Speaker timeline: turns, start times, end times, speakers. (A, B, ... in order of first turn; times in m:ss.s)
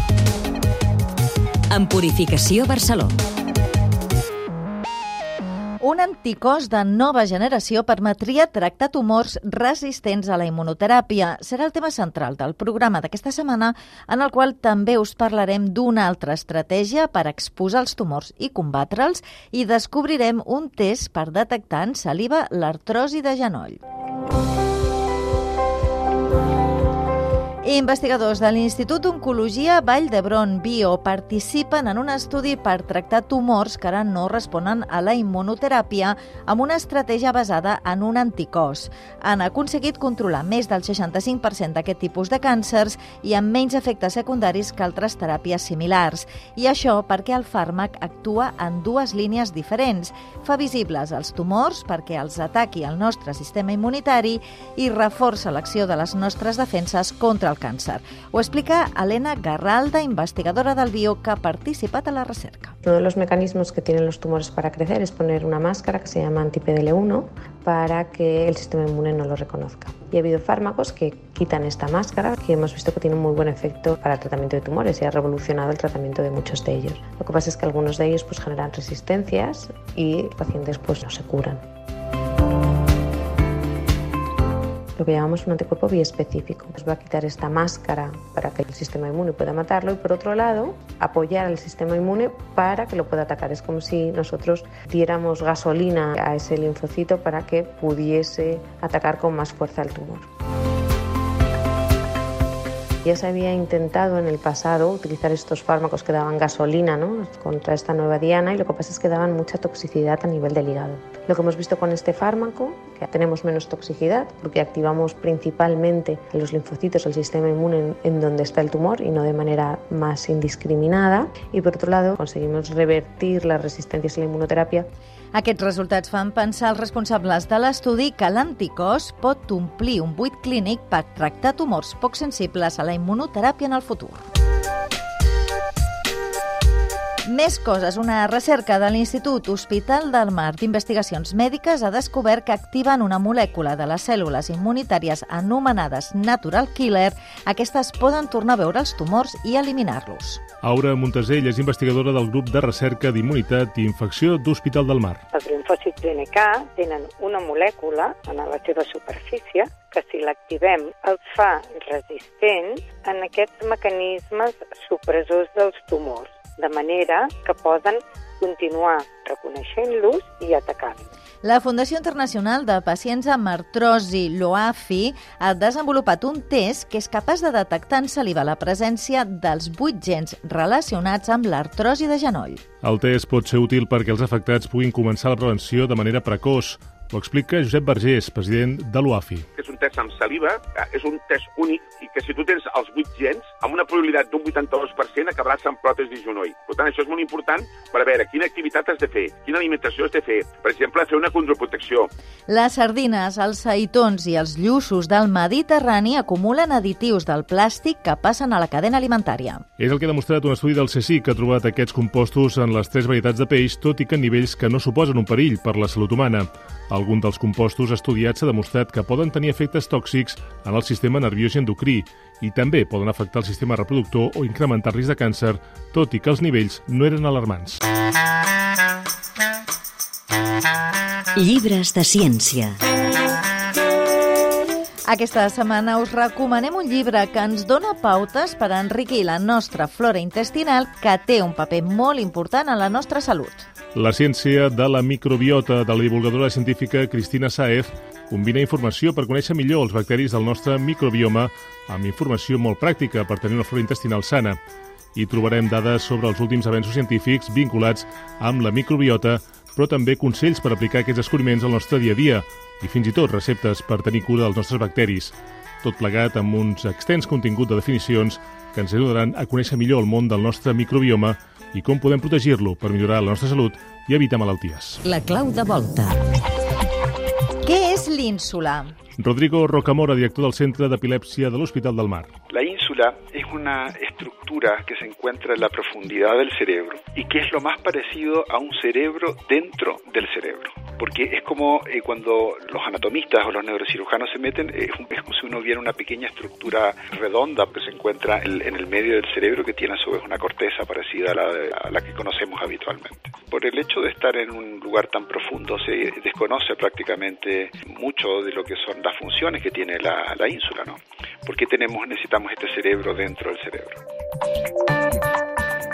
0:01.7-0:03.2 A
0:05.8-0:23.8 B
0:27.6-1:02.8 B
1:02.8-1:21.6 C
1:25.0-1:40.3 C
1:43.0-2:04.9 C
2:05.3-2:14.2 B
2:17.2-2:30.4 B
2:30.6-2:35.2 D
2:35.3-2:51.1 E
2:51.4-3:02.6 B
3:02.8-3:09.5 D
3:09.6-3:22.1 F
3:22.5-3:29.6 B
3:29.8-3:47.8 D
3:51.4-3:52.8 A
3:55.1-4:03.7 B
4:03.9-4:14.6 D
4:15.2-4:35.0 D
4:35.1-4:36.2 A
4:37.6-4:38.9 B
4:39.2-4:42.3 D
4:42.5-5:14.0 G